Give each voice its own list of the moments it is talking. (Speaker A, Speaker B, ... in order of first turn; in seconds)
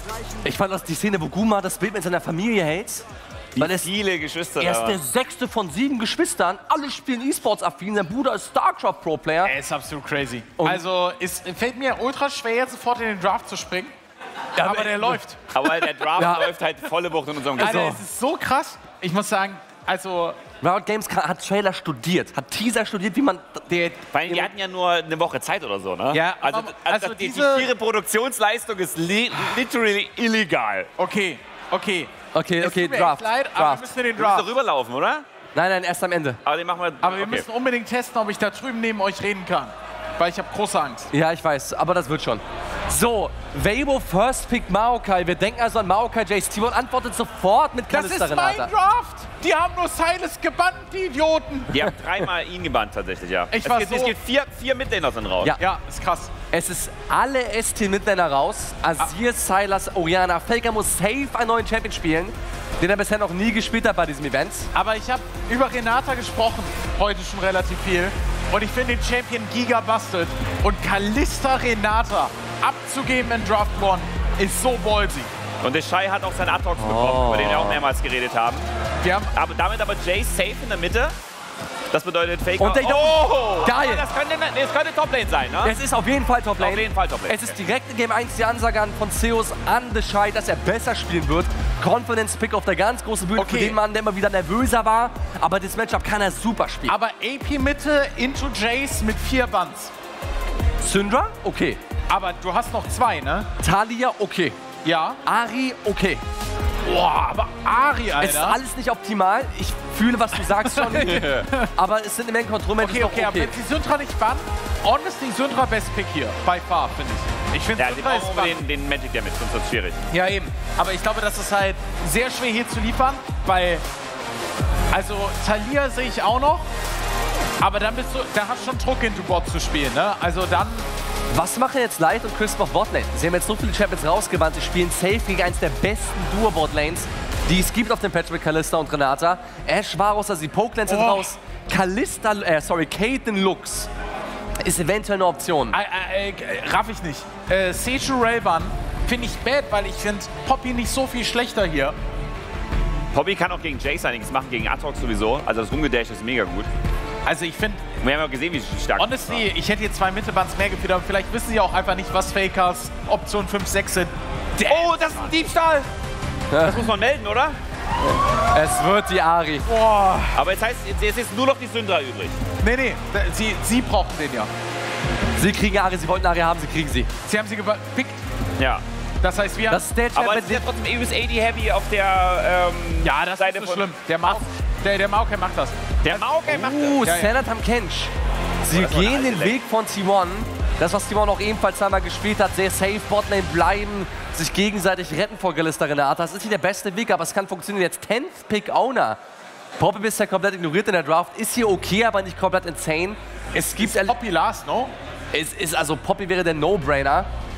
Speaker A: 0.4-3.0, 3.6-3.9, 4.6-9.5, 14.6-15.2, 16.1-16.5, 17.6-18.0, 20.6-24.5, 32.4-33.9, 35.5-36.4, 41.1-48.7, 56.5-64.7, 76.8-77.8, 82.6-84.0, 85.6-97.0, 100.8-101.8, 103.6-104.6, 105.2-106.2, 108.2-113.5, 131.3-143.9, 144.6-145.8, 166.5-166.9, 168.5-169.7, 175.4-177.1, 179.7-180.6, 186.5-188.1, 188.6-199.2, 199.8-204.2, 205.3-207.3
Speaker B: 3.5-5.0, 15.5-17.9, 24.1-30.9, 34.2-35.2, 36.5-37.5, 51.7-55.5, 75.6-78.7, 79.3-81.1, 81.9-85.7, 86.6-87.5, 117.8-120.0, 153.1-156.7, 158.0-159.5, 164.7-165.9, 166.6-167.6, 170.3-172.4, 180.2-184.4, 186.0-187.0, 188.7-189.6
Speaker C: 9.4-13.9, 14.6-15.5, 17.6-20.4, 26.1-27.7, 31.0-34.5, 37.0-41.1, 47.9-51.9, 53.5-54.1, 55.6-56.3, 64.8-75.3, 79.0-79.3, 93.4-93.8, 96.9-99.9, 102.1-103.5, 104.8-105.2, 106.8-108.6, 110.5-111.7, 112.8-118.6, 120.1-123.8, 124.9-126.7, 127.6-130.9, 140.9-141.3, 145.7-151.9, 157.2-157.9, 159.0-165.3, 169.7-170.4, 172.6-174.5, 177.3-178.2, 179.2-179.8, 183.0-186.4, 187.0-187.3, 203.6-204.9